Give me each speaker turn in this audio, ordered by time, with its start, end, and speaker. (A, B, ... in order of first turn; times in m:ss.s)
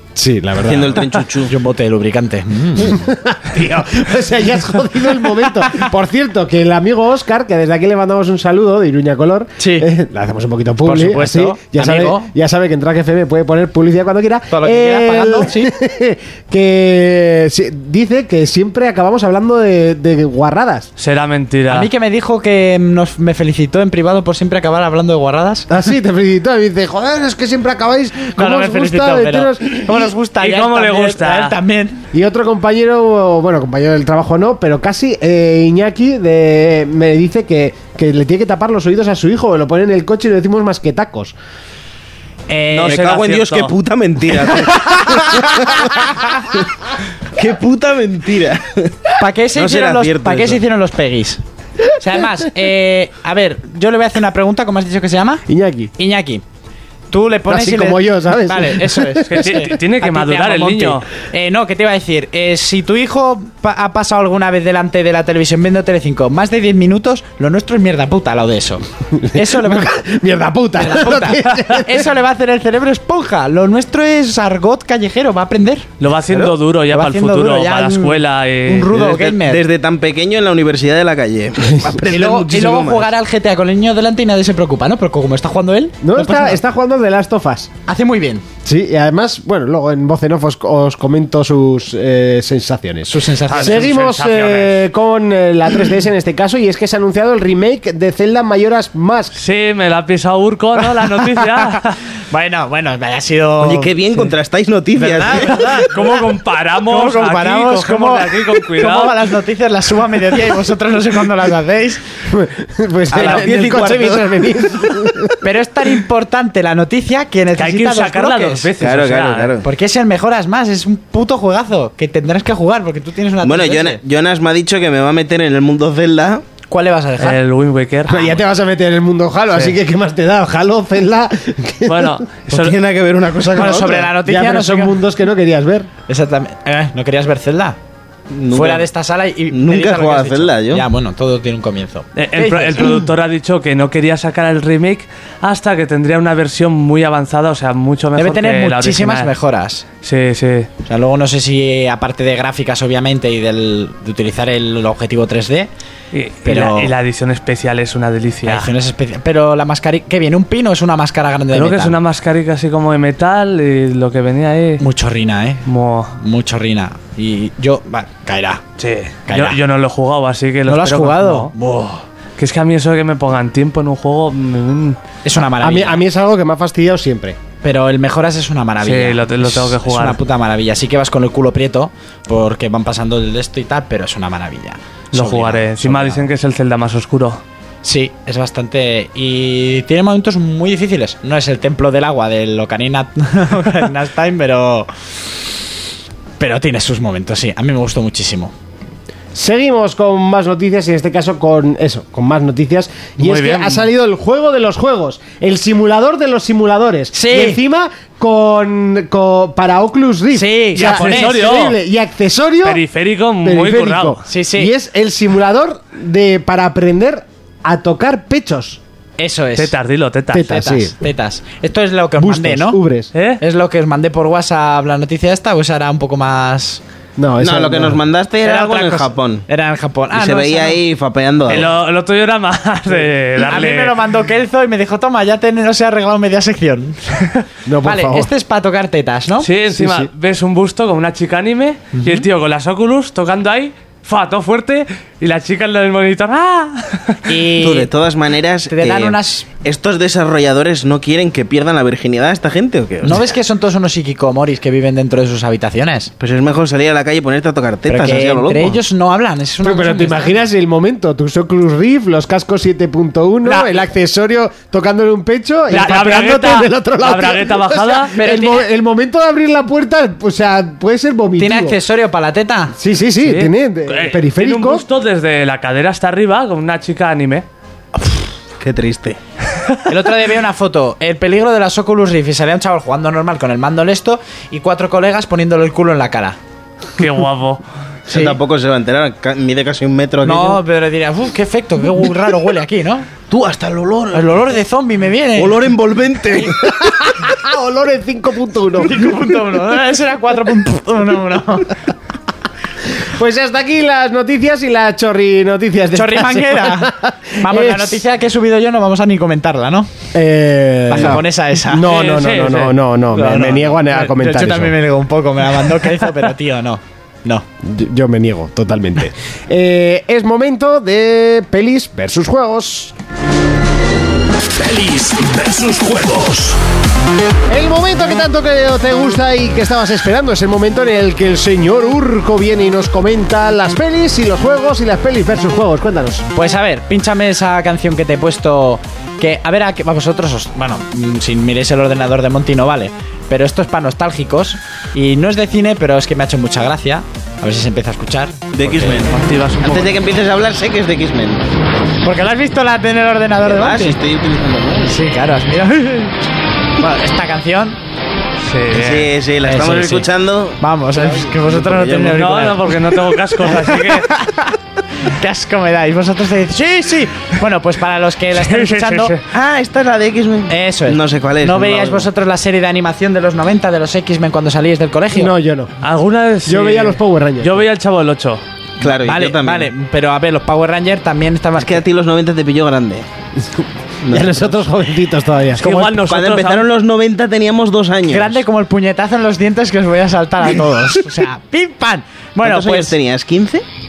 0:00.1-0:01.1 A
0:00.6-0:01.6 B
0:01.5-0:03.0 C
0:02.8-0:20.9 A
0:09.6-0:09.9 C
0:10.8-0:12.3 C
0:14.5-0:15.7 C
0:21.0-0:21.9 D
0:21.7-0:25.7 C
0:25.7-0:30.1 A
0:28.4-0:32.0 C
0:30.4-0:31.5 D
0:32.1-0:41.3 A
0:42.5-0:43.2 C
0:42.7-0:43.7 D
0:42.9-0:46.7 B
0:47.4-0:50.6 B
0:49.2-0:51.4 C
0:52.0-0:55.4 C
0:55.5-0:55.9 A
0:56.0-0:56.4 C
0:57.1-1:08.8 C
0:57.5-0:59.7 A
0:59.3-1:01.0 D
1:09.3-1:10.0 C
1:09.3-1:12.0 A
1:10.8-1:15.9 C
1:16.0-1:18.9 D
1:16.9-1:19.6 C
1:18.9-1:23.1 B
1:22.1-1:26.6 C
1:26.0-1:27.7 A
1:27.9-1:28.4 C
1:28.6-1:39.3 A
1:33.1-1:34.0 C
1:33.5-1:34.8 D
1:39.3-1:42.0 D
1:41.2-1:41.8 C
1:42.3-1:44.3 C
1:43.6-1:45.8 B
1:44.9-1:45.9 C
1:45.4-1:49.2 D
1:46.8-1:52.0 C
1:52.3-1:55.3 A
1:53.1-1:53.9 C
1:53.1-1:55.0 B
1:55.4-1:58.7 C
1:57.6-1:59.5 D
1:58.7-1:59.7 B
1:59.6-2:04.0 C
2:03.4-2:06.5 B
2:06.7-2:07.4 C
2:07.2-2:08.2 D
2:08.1-2:12.2 A
2:11.8-2:12.8 D
2:12.5-2:14.1 B
2:13.5-2:15.0 C
2:14.2-2:15.9 A
2:16.1-2:17.8 C
2:18.3-2:18.9 B
2:18.5-2:23.0 C
2:19.5-2:20.8 B
2:22.2-2:29.3 D
2:28.2-2:29.8 C
2:30.0-2:30.7 D
2:30.8-2:35.7 C
2:36.1-2:38.7 D
2:36.4-2:36.9 C
2:38.4-2:42.0 C
2:41.5-2:44.8 D
2:44.8-2:45.6 C
2:45.6-2:46.1 D
2:46.2-2:48.6 C
2:48.8-2:51.5 D
2:49.3-2:49.6 C
2:50.7-2:52.0 C
2:52.4-2:55.0 D
2:55.2-2:56.0 C
2:55.6-2:57.4 A
2:57.6-3:06.3 C
2:58.8-3:00.2 D
3:05.1-3:07.4 D
3:07.8-3:14.9 C
3:16.4-3:18.5 C
3:19.3-3:32.8 A
3:23.2-3:23.9 D
3:27.1-3:27.6 C
3:30.3-3:31.5 C
3:30.7-3:31.8 D
3:32.6-3:34.2 D
3:33.4-3:38.8 A
3:34.3-3:34.7 C
3:39.2-3:39.7 C
3:39.6-3:40.5 D
3:40.3-3:40.9 A
3:40.4-3:42.8 C
3:42.2-3:43.1 A
3:43.1-3:43.4 D
3:43.4-3:46.8 C
3:47.2-3:48.0 A
3:47.4-3:49.4 B
3:48.4-3:50.8 C
3:50.1-3:51.7 B
3:51.5-3:54.0 D
3:53.4-3:59.5 C
3:57.7-3:58.3 A
3:59.4-4:07.2 D
3:59.7-4:00.1 A
4:01.9-4:02.2 C
4:07.3-4:07.9 C
4:07.6-4:13.4 B
4:08.7-4:09.5 C
4:13.0-4:16.1 C
4:16.2-4:18.8 B
4:17.9-4:20.3 C
4:19.6-4:31.8 A
4:25.7-4:28.1 D
4:25.7-4:26.3 C
4:28.2-4:28.6 C
4:31.4-4:32.7 C
4:32.8-4:34.8 A
4:33.2-4:37.4 D
4:38.0-4:39.2 B
4:39.9-4:46.4 C
4:47.0-4:47.6 D
4:48.1-4:50.6 B
4:48.1-4:48.4 C
4:50.2-4:53.1 C
4:53.3-4:54.4 B
4:54.1-4:55.6 C
4:55.3-4:56.7 B
4:56.6-4:59.0 A
4:58.8-5:01.8 C
5:03.1-5:08.0 A
5:05.9-5:09.9 C
5:10.1-5:14.7 A
5:10.9-5:11.9 C
5:11.8-5:12.8 D
5:13.1-5:17.4 C
5:17.6-5:22.9 A
5:24.6-5:26.6 E
5:27.5-5:36.2 A
5:36.3-5:49.0 C
5:48.5-5:51.5 B
5:49.1-5:50.1 D
5:52.0-5:54.0 C
5:53.4-5:55.0 B
5:54.8-5:56.2 C
5:56.8-5:57.8 C
5:58.4-5:59.1 D
5:58.7-6:02.4 B
5:59.4-6:00.1 C
6:00.6-6:09.2 C
6:02.1-6:04.1 D
6:08.3-6:09.2 D
6:09.3-6:12.1 B
6:10.5-6:15.3 C
6:15.1-6:15.7 A
6:15.8-6:18.4 D
6:16.4-6:17.6 A
6:18.8-6:19.7 B
6:18.8-6:21.8 C
6:21.6-6:23.1 B
6:24.0-6:24.6 B
6:24.1-6:25.7 A
6:25.6-6:26.7 D
6:25.7-6:28.4 B
6:28.1-6:32.9 C
6:32.4-6:33.6 B